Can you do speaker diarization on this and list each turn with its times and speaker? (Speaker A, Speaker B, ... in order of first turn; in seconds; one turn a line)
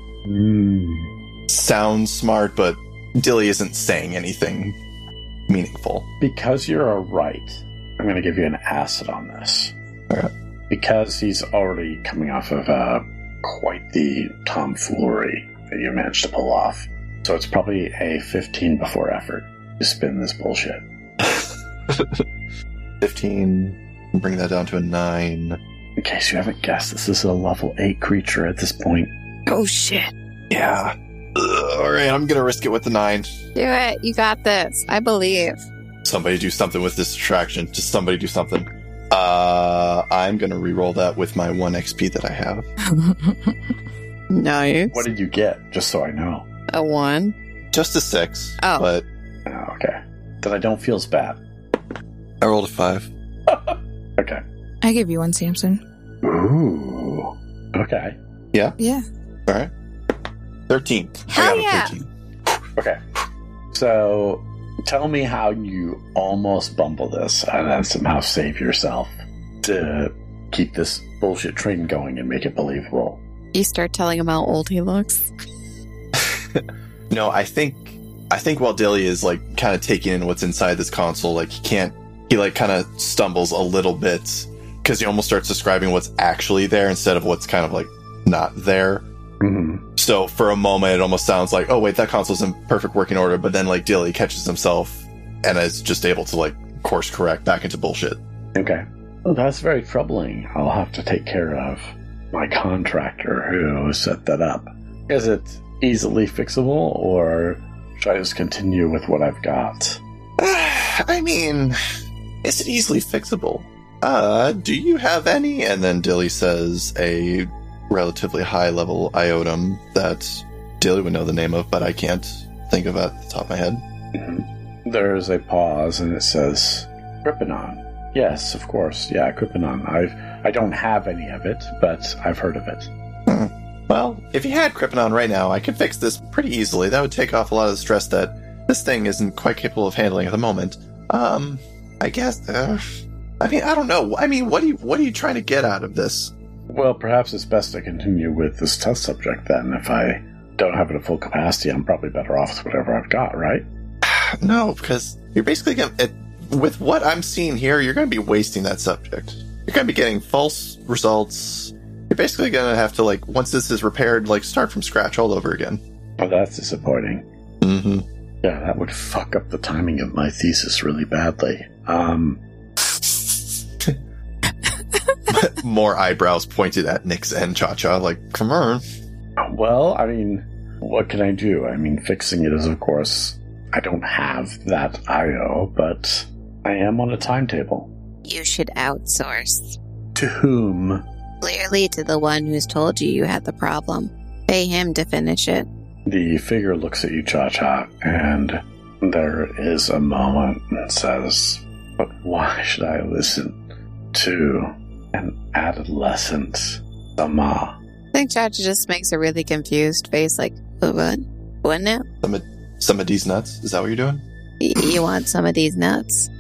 Speaker A: 0.2-1.1
Speaker B: 1.5-4.8
Speaker B: 5.5-6.1
Speaker A: 6.2-9.7
Speaker A: 10.7-20.8
Speaker B: 21.2-22.2
Speaker B: 23.0-25.6
Speaker A: 26.0-29.1
Speaker C: 29.5-30.1
Speaker B: 30.5-33.3
Speaker C: 33.5-35.6
Speaker B: 36.0-42.7
Speaker D: 42.8-43.6
Speaker C: 44.3-45.0
Speaker A: 44.9-46.5
Speaker C: 46.7-47.4
Speaker B: 47.7-49.1
Speaker C: 48.6-48.9
Speaker A: 49.5-51.4
Speaker B: 52.4-53.1
Speaker A: 53.5-54.4
Speaker D: 54.8-55.8
Speaker A: 56.2-58.2
Speaker D: 58.8-59.0
Speaker B: 60.7-62.6
Speaker D: 61.4-61.9
Speaker C: 61.4-61.7
Speaker A: 62.8-63.0
Speaker A: 63.7-73.2
Speaker C: 73.5-75.3
Speaker B: 76.2-89.1
Speaker A: 89.4-89.8
Speaker B: 90.0-98.2
Speaker A: 98.5-110.0
Speaker B: 110.4-111.8
Speaker B: 112.4-123.8
Speaker A: 124.1-132.9
Speaker B: 133.3-146.3
Speaker A: 146.7-153.7
Speaker B: 154.0-165.8
Speaker A: 166.2-167.2
Speaker B: 167.6-168.1
Speaker A: 168.4-172.4
Speaker B: 175.3-178.8
Speaker A: 179.4-187.9
Speaker C: 188.2-189.8
Speaker A: 190.2-191.0
Speaker C: 191.4-195.7
Speaker A: 196.1-203.6
Speaker A: 204.1-207.8
Speaker C: 208.1-212.1
Speaker B: 212.2-214.2
Speaker C: 214.6-216.3